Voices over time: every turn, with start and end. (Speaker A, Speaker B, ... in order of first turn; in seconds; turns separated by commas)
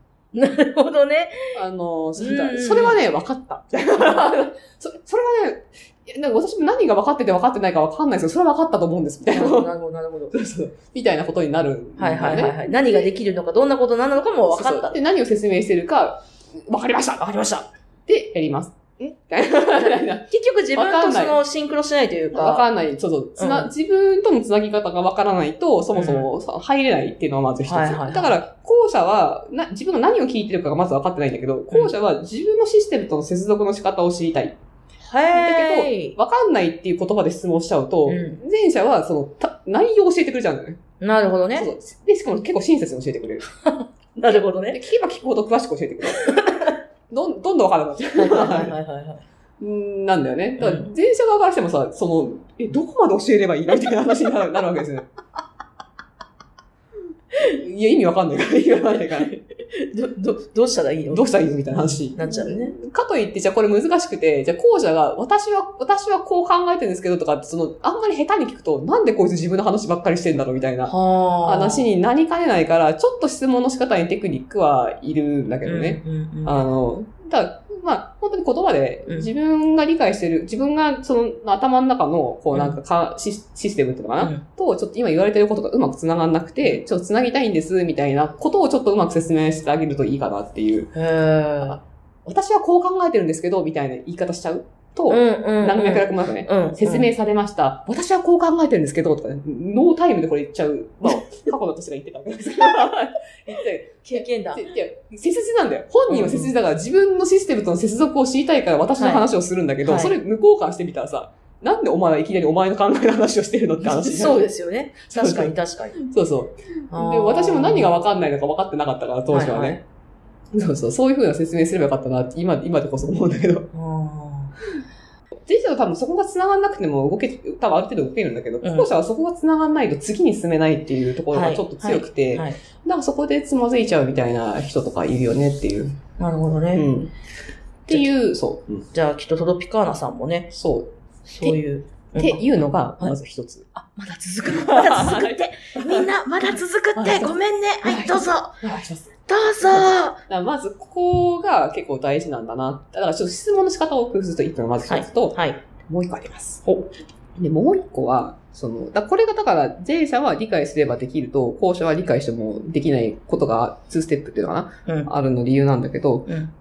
Speaker A: 0.3-1.5, Speaker B: 1.5-9.7, Speaker A: 2.2-3.0, Speaker A: 9.3-10.3, Speaker B: 10.3-13.1, Speaker A: 12.0-15.0, Speaker B: 14.5-21.4, Speaker A: 20.3-22.7, Speaker B: 22.3-34.6, Speaker A: 23.4-23.7, Speaker A: 25.9-26.3, Speaker A: 27.6-28.4, Speaker A: 35.0-36.2, Speaker B: 35.3-40.8, Speaker A: 38.0-38.4, Speaker A: 41.0-41.7, Speaker B: 41.5-43.4, Speaker A: 43.6-44.8, Speaker B: 44.7-46.4, Speaker A: 46.1-46.8, Speaker B: 47.1-48.8, Speaker A: 48.1-49.2, Speaker B: 49.6-55.1, Speaker A: 50.6-50.9, Speaker B: 57.4-59.3, Speaker A: 59.1-62.8, Speaker B: 61.1-90.9, Speaker A: 70.8-71.9, Speaker A: 75.6-76.6, Speaker A: 79.0-79.3, Speaker A: 82.5-82.8, Speaker A: 84.2-84.4, Speaker A: 90.9-91.8, Speaker B: 91.6-114.5, Speaker A: 95.1-97.1, Speaker A: 104.0-104.7, Speaker A: 106.1-106.5, Speaker A: 109.0-109.3, Speaker A: 109.8-110.2, Speaker A: 113.8-116.0, Speaker B: 115.1-119.8, Speaker A: 116.9-117.9, Speaker A: 119.3-119.8, Speaker B: 120.5-123.7, Speaker A: 123.7-124.5, Speaker B: 125.5-136.0, Speaker A: 128.6-128.9, Speaker A: 131.3-132.6, Speaker A: 136.2-136.9, Speaker B: 136.7-137.1, Speaker B: 137.8-138.9, Speaker A: 138.9-140.5, Speaker B: 140.5-140.9, Speaker A: 141.2-142.4, Speaker B: 142.2-143.7, Speaker A: 143.7-148.6, Speaker B: 144.4-146.1, Speaker B: 146.9-147.3, Speaker B: 147.8-156.6, Speaker A: 149.3-150.2, Speaker A: 154.8-155.6, Speaker A: 156.6-156.9, Speaker B: 157.4-166.3, Speaker A: 164.8-165.1, Speaker A: 166.2-166.5